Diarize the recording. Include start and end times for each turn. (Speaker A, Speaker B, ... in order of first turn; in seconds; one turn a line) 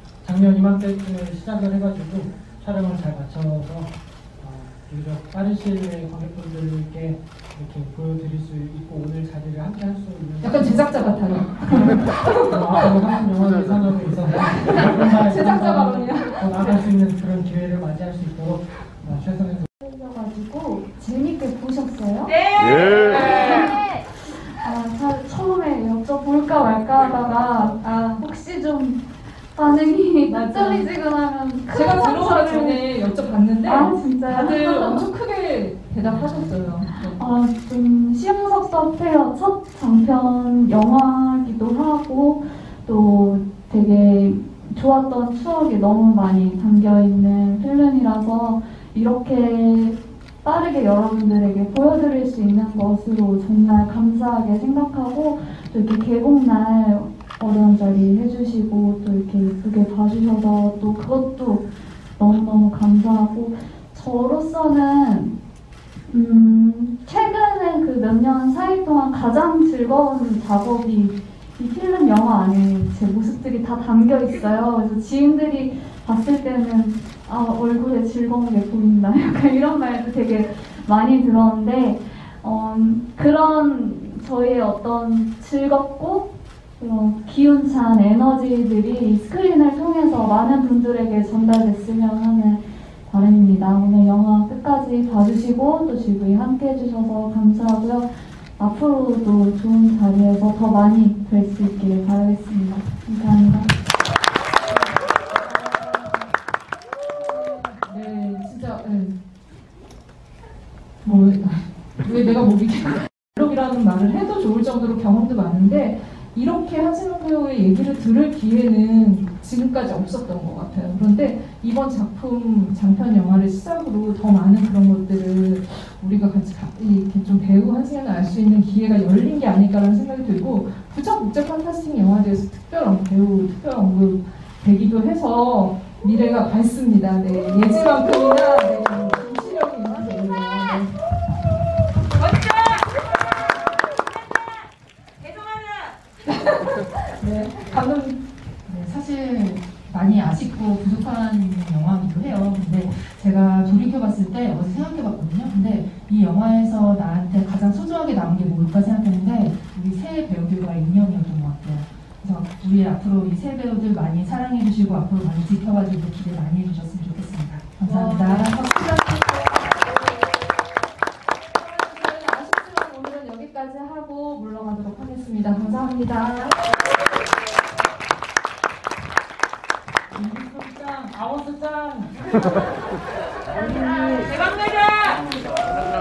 Speaker A: 0.2-19.7
Speaker B: 10.4-12.9
Speaker B: 14.6-16.9
Speaker C: 19.8-32.9
Speaker B: 27.8-28.2
Speaker B: 30.3-30.9
Speaker B: 31.7-37.2
Speaker C: 33.6-35.0
Speaker C: 37.0-65.4
Speaker C: 66.1-103.7
Speaker B: 105.6-106.2
Speaker B: 107.2-109.2
Speaker B: 111.0-140.9
Speaker B: 146.2-148.2
Speaker D: 148.7-169.4
Speaker B: 167.8-168.6
Speaker B: 171.3-176.6
Speaker A: 180.1-182.8
Speaker A: 183.5-185.2